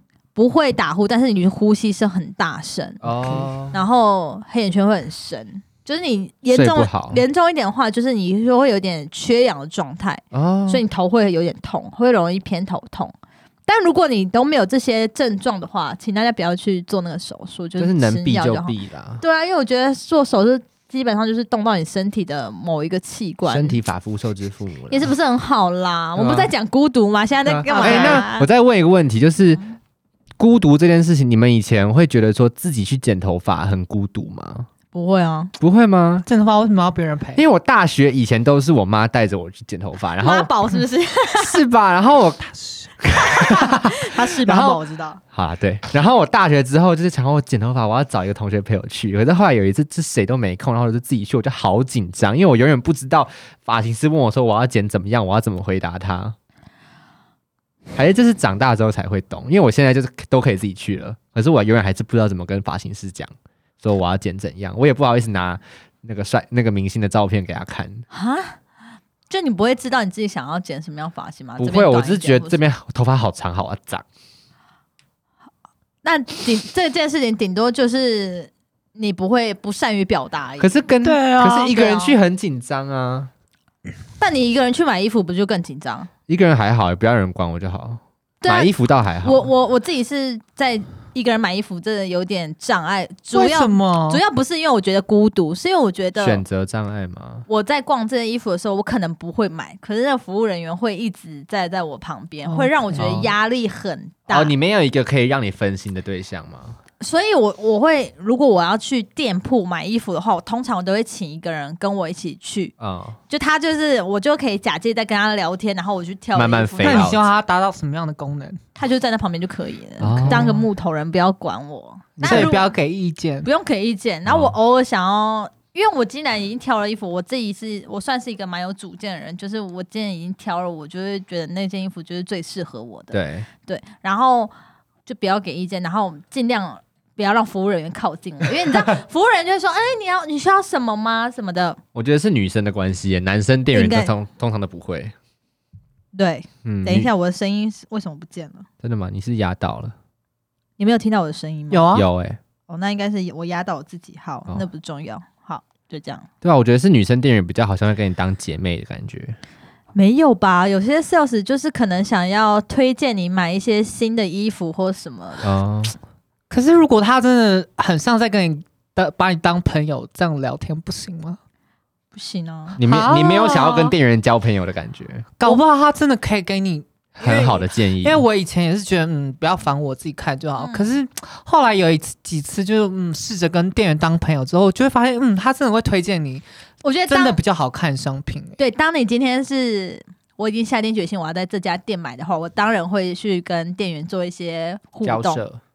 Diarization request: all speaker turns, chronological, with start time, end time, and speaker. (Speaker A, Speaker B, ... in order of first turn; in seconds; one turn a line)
Speaker A: 0.3-3.0
Speaker B: 3.0-3.8
Speaker C: 3.2-3.5
Speaker A: 3.7-13.1
Speaker B: 6.5-7.2
Speaker B: 10.3-10.8
Speaker A: 13.7-23.8
Speaker B: 17.8-19.2
Speaker B: 23.4-25.1
Speaker A: 24.9-28.5
Speaker B: 26.2-26.5
Speaker B: 27.4-29.6
Speaker C: 27.7-28.2
Speaker B: 30.4-34.7
Speaker A: 34.9-35.5
Speaker B: 35.6-36.3
Speaker C: 36.3-37.4
Speaker B: 37.4-40.5
Speaker A: 40.2-41.6
Speaker B: 41.3-44.8
Speaker A: 43.2-45.2
Speaker B: 45.3-56.4
Speaker B: 57.9-68.0
Speaker A: 68.1-68.6
Speaker A: 69.3-72.6
Speaker B: 71.6-74.0
Speaker A: 76.0-80.8
Speaker B: 80.6-83.3
Speaker C: 81.0-81.8
Speaker A: 81.6-82.2
Speaker A: 84.2-86.1
Speaker B: 86.3-89.5
Speaker A: 88.4-88.7
Speaker A: 89.2-96.4
Speaker C: 93.3-94.2
Speaker B: 96.2-97.5
Speaker A: 97.5-104.5
Speaker C: 102.4-103.0
Speaker B: 102.9-103.3
Speaker B: 104.3-106.8
Speaker A: 107.0-112.7
Speaker B: 112.8-113.2
Speaker A: 113.3-117.1
Speaker B: 116.3-117.3
Speaker C: 116.8-118.6
Speaker A: 118.8-122.7
Speaker B: 120.0-120.6
Speaker C: 120.1-120.6
Speaker B: 122.2-122.6
Speaker C: 122.2-123.5
Speaker A: 123.4-134.5
Speaker B: 124.2-124.5
Speaker B: 133.1-133.5
Speaker A: 135.1-141.8
Speaker B: 141.9-145.1
Speaker A: 143.7-144.1
Speaker A: 146.1-148.7
Speaker B: 146.6-147.1
Speaker B: 148.8-149.9
Speaker A: 150.8-152.0
Speaker C: 151.7-152.1
Speaker B: 151.9-152.4
Speaker A: 152.7-156.3
Speaker B: 156.4-159.4
Speaker A: 159.9-165.5
Speaker B: 165.4-165.9
Speaker C: 166.5-171.4
Speaker A: 172.1-172.8
Speaker B: 172.8-175.3
Speaker C: 172.8-173.9
Speaker C: 175.4-186.4
Speaker B: 177.2-178.2
Speaker A: 180.6-180.9
Speaker A: 186.8-187.4
Speaker C: 187.1-188.6
Speaker A: 188.6-195.4
Speaker B: 195.0-195.6